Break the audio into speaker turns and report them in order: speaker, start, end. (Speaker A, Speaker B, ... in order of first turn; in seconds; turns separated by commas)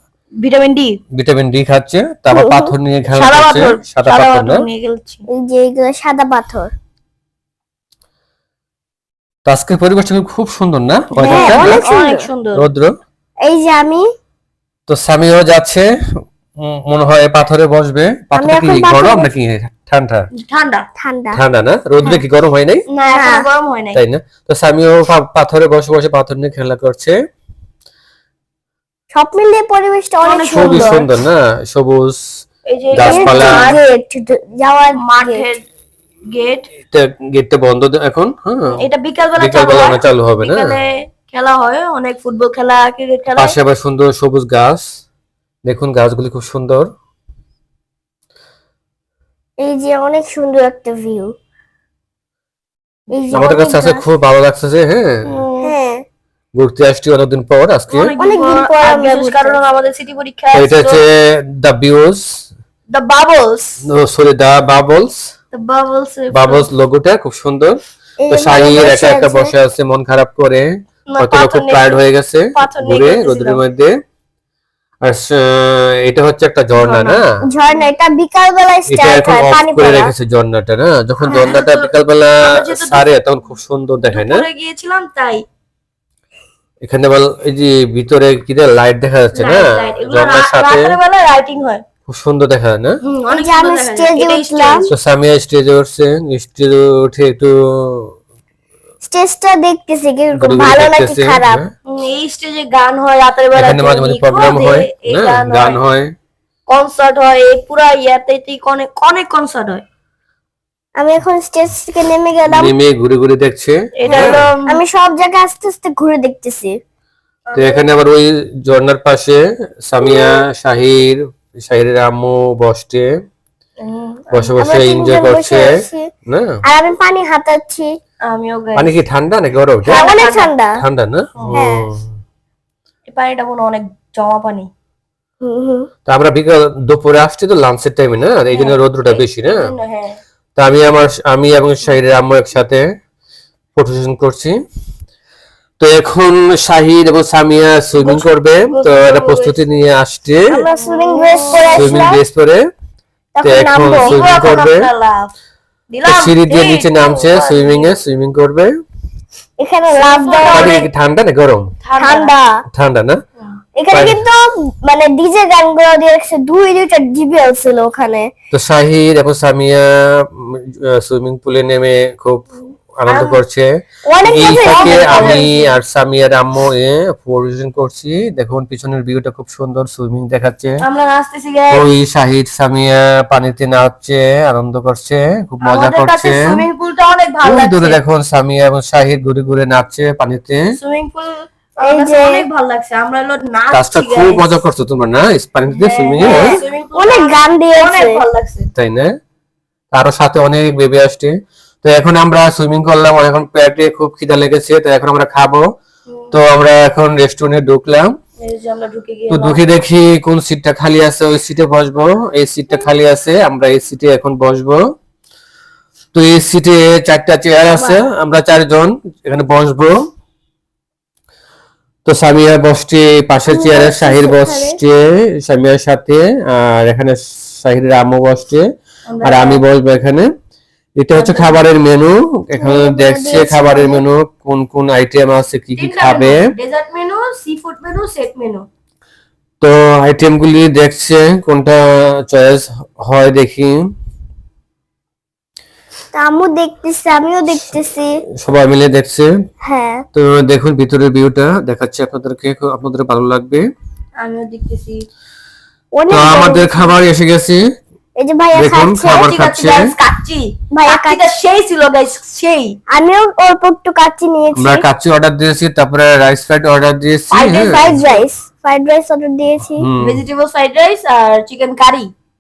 Speaker A: 0.4-1.0, Speaker B: 1.1-4.7, Speaker C: 2.3-2.7, Speaker A: 3.1-5.2, Speaker C: 5.3-6.7, Speaker B: 9.5-11.9, Speaker C: 11.2-12.3, Speaker A: 11.2-12.7, Speaker B: 12.5-12.9, Speaker C: 13.4-14.1, Speaker B: 14.9-15.9, Speaker B: 16.6-20.3, Speaker C: 18.4-19.3, Speaker A: 20.4-20.9, Speaker C: 21.0-21.4, Speaker B: 21.3-22.8, Speaker A: 22.9-24.0, Speaker C: 23.1-23.5, Speaker B: 23.9-27.2, Speaker C: 29.1-31.0, Speaker A: 30.2-31.1, Speaker B: 30.5-32.2, Speaker A: 32.7-33.8, Speaker B: 32.9-33.8, Speaker C: 33.0-35.5, Speaker A: 35.0-35.6, Speaker A: 36.3-36.7, Speaker B: 36.9-38.8, Speaker A: 38.8-43.6, Speaker B: 39.4-40.8, Speaker B: 43.4-44.9, Speaker B: 45.6-46.9, Speaker C: 49.6-51.3, Speaker C: 53.1-54.0, Speaker B: 53.3-55.4, Speaker A: 55.3-55.8, Speaker C: 55.6-56.0, Speaker B: 56.6-58.1, Speaker A: 57.9-61.0, Speaker C: 58.2-59.6, Speaker B: 60.5-62.2, Speaker A: 62.9-63.9, Speaker B: 63.8-65.2, Speaker A: 65.5-66.7, Speaker B: 66.3-67.8, Speaker C: 68.2-69.5, Speaker B: 68.3-73.9, Speaker A: 68.5-68.8, Speaker A: 71.1-73.6, Speaker B: 75.0-77.2, Speaker A: 76.8-77.9, Speaker C: 77.4-80.1, Speaker B: 78.9-84.5, Speaker A: 81.3-83.1, Speaker A: 84.1-85.4, Speaker B: 86.8-91.0, Speaker A: 89.3-91.8, Speaker B: 92.1-93.0, Speaker A: 93.1-94.9, Speaker C: 93.3-94.8, Speaker B: 94.9-98.2, Speaker C: 99.0-101.6, Speaker B: 100.4-101.7, Speaker A: 101.9-105.8, Speaker B: 103.5-106.1, Speaker A: 106.7-109.8, Speaker C: 111.0-112.7, Speaker B: 112.5-114.5, Speaker A: 114.0-114.8, Speaker C: 114.1-116.7, Speaker A: 117.5-117.8, Speaker B: 117.5-123.1, Speaker C: 120.0-120.3, Speaker A: 123.8-124.5, Speaker B: 124.3-125.7, Speaker C: 124.6-126.1, Speaker B: 126.3-126.6, Speaker C: 126.6-127.9, Speaker A: 128.2-129.0, Speaker B: 128.8-130.1, Speaker A: 129.8-130.6, Speaker C: 129.9-130.8, Speaker B: 130.8-132.1, Speaker A: 131.4-131.7, Speaker C: 131.5-131.9, Speaker A: 133.1-134.7, Speaker C: 135.4-135.9, Speaker B: 136.1-139.7, Speaker A: 138.5-140.2, Speaker B: 140.6-142.8, Speaker B: 143.8-144.6, Speaker B: 145.8-150.5, Speaker A: 147.9-149.6, Speaker C: 150.5-152.2, Speaker A: 150.8-152.1, Speaker B: 151.7-152.7, Speaker C: 153.3-154.2, Speaker B: 153.4-154.9, Speaker A: 153.9-155.3, Speaker A: 155.9-158.0, Speaker B: 156.1-158.7, Speaker C: 159.6-160.9, Speaker A: 159.9-160.9, Speaker B: 160.4-161.7, Speaker A: 161.8-162.3, Speaker C: 162.0-162.6, Speaker B: 162.7-163.2, Speaker C: 163.8-168.3, Speaker B: 163.9-164.2, Speaker B: 168.5-173.7, Speaker A: 173.1-173.4, Speaker C: 174.1-175.5, Speaker B: 174.2-180.8, Speaker A: 174.3-175.7, Speaker A: 180.8-181.9, Speaker B: 181.7-186.6, Speaker A: 185.6-188.0, Speaker B: 187.4-190.6, Speaker A: 190.8-194.6, Speaker C: 191.8-192.5, Speaker B: 193.7-196.6, Speaker A: 195.7-198.7, Speaker C: 196.2-198.2, Speaker B: 198.8-199.1, Speaker B: 199.9-205.7, Speaker A: 206.1-206.4, Speaker B: 206.3-208.1, Speaker A: 208.4-209.6, Speaker B: 209.3-214.8, Speaker B: 216.1-220.0, Speaker C: 217.8-218.0, Speaker B: 222.1-228.7, Speaker C: 223.5-224.8, Speaker A: 229.1-229.6, Speaker B: 229.2-230.3, Speaker B: 231.0-236.4, Speaker A: 231.1-231.7, Speaker C: 232.6-234.1, Speaker A: 235.8-238.7, Speaker B: 239.6-243.9, Speaker C: 246.1-248.2, Speaker B: 248.3-249.3, Speaker C: 249.6-250.1, Speaker B: 250.1-253.6, Speaker A: 254.2-255.0, Speaker C: 255.9-256.8, Speaker B: 256.1-257.6, Speaker A: 256.1-257.0, Speaker C: 258.2-259.3, Speaker B: 258.5-259.9, Speaker A: 259.0-262.8, Speaker C: 260.7-261.3, Speaker C: 262.9-264.9, Speaker B: 264.6-268.0, Speaker A: 267.3-268.3, Speaker C: 267.7-269.9, Speaker B: 269.8-270.2, Speaker A: 270.0-272.1